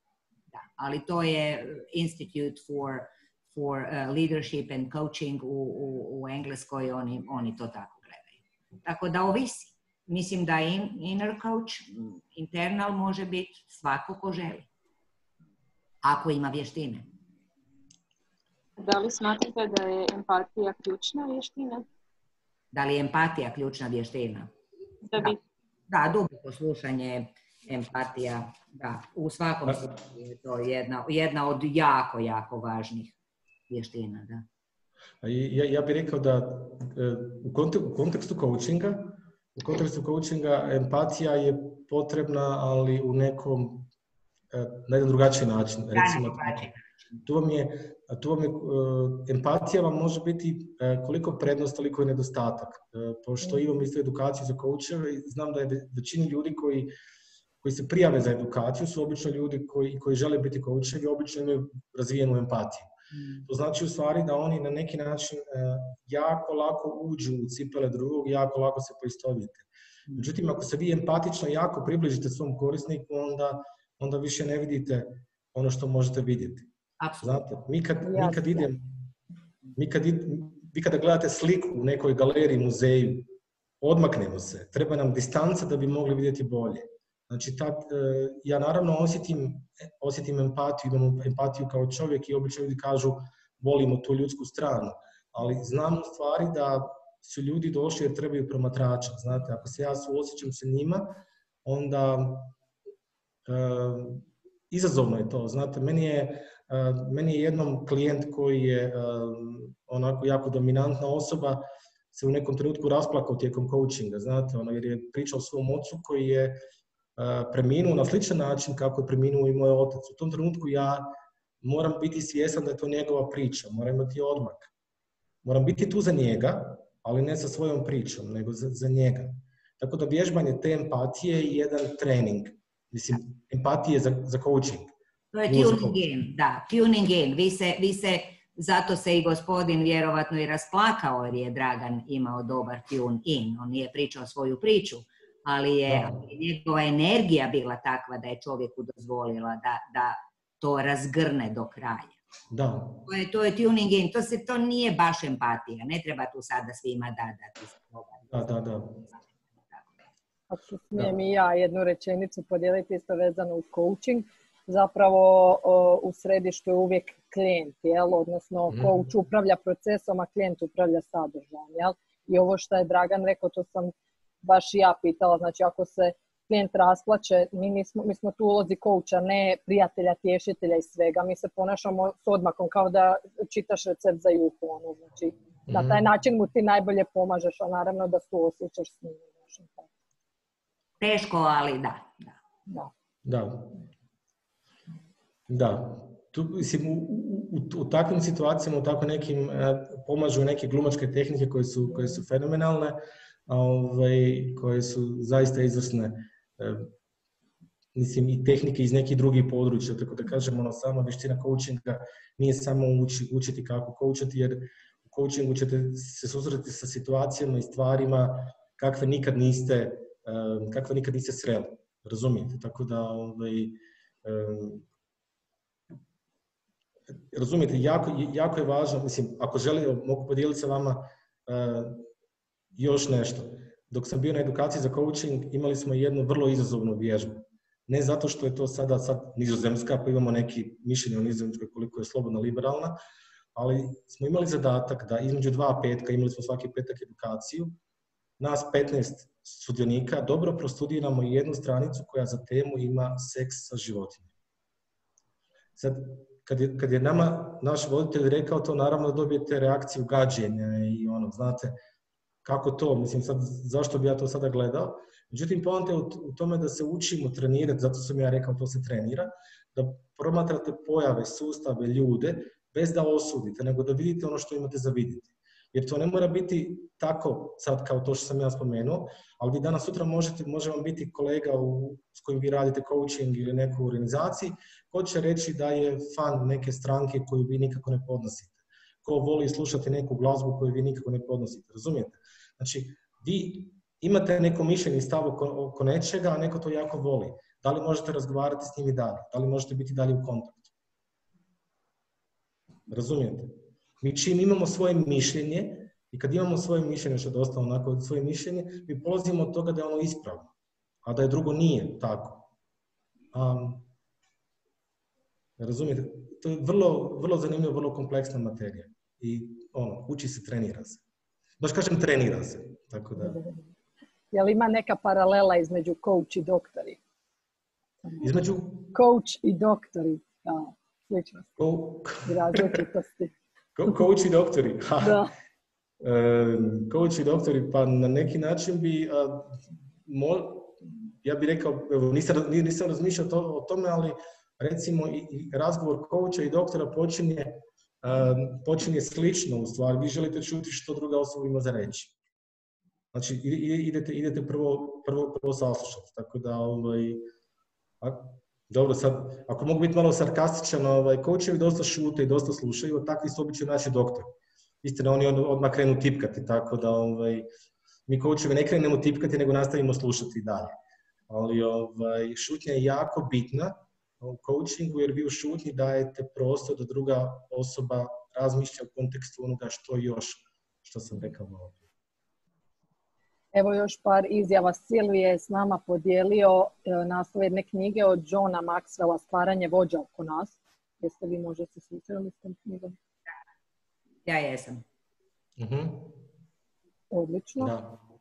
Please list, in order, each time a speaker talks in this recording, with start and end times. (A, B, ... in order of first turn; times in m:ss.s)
0:00.5-0:14.7 A
0:16.0-0:17.1 A
0:18.8-0:21.8 B
0:22.7-0:24.5 A
0:25.0-0:25.4 B
0:25.9-0:33.1 A
0:33.7-0:34.4 A
0:35.2-0:43.9 C
0:44.5-0:56.9 C
0:45.9-0:46.8 A
0:57.6-1:02.9 C
1:03.2-1:03.4 A
1:03.4-1:16.7 C
1:17.0-1:17.4 A
1:17.2-1:18.9 C
1:18.0-1:18.7 D
1:19.8-1:23.3 C
1:23.8-1:42.5 C
1:43.5-1:56.6 C
1:57.2-2:01.1 C
2:01.6-2:04.7 C
2:05.4-2:14.9 C
2:15.3-2:32.2 A
2:15.5-2:16.0 C
2:25.9-2:26.2 C
2:32.5-2:33.0 C
2:33.0-2:38.4 A
2:38.3-2:39.0 C
2:39.6-2:39.9 A
2:40.5-3:09.9 D
2:48.7-2:49.0 C
3:05.7-3:06.0 C
3:11.0-3:12.3 A
3:13.2-3:13.7 C
3:15.5-3:26.9 C
3:27.9-3:44.8 C
3:47.3-3:52.0 C
3:52.7-4:03.0 C
4:03.5-4:07.8 C
4:08.4-4:14.3 C
4:15.8-4:21.8 C
4:22.4-5:00.7 C
5:02.9-5:10.5 C
5:11.0-5:12.4 C
5:13.3-5:13.8 C
5:15.6-5:21.0 C
5:21.6-5:23.4 C
5:23.2-5:23.6 D
5:24.3-5:27.0 D
5:28.2-5:28.9 C
5:28.9-5:31.5 D
5:31.6-5:32.8 C
5:32.2-5:33.3 D
5:33.8-5:35.2 C
5:35.0-5:35.3 D
5:36.0-5:52.1 C
5:53.1-5:57.2 C
5:58.0-6:07.5 C
6:08.1-6:10.7 C
6:11.3-6:21.8 C
6:23.5-6:33.0 D
6:34.2-6:34.8 A
6:35.6-6:36.2 C
6:37.1-6:37.7 D
6:37.6-6:38.0 C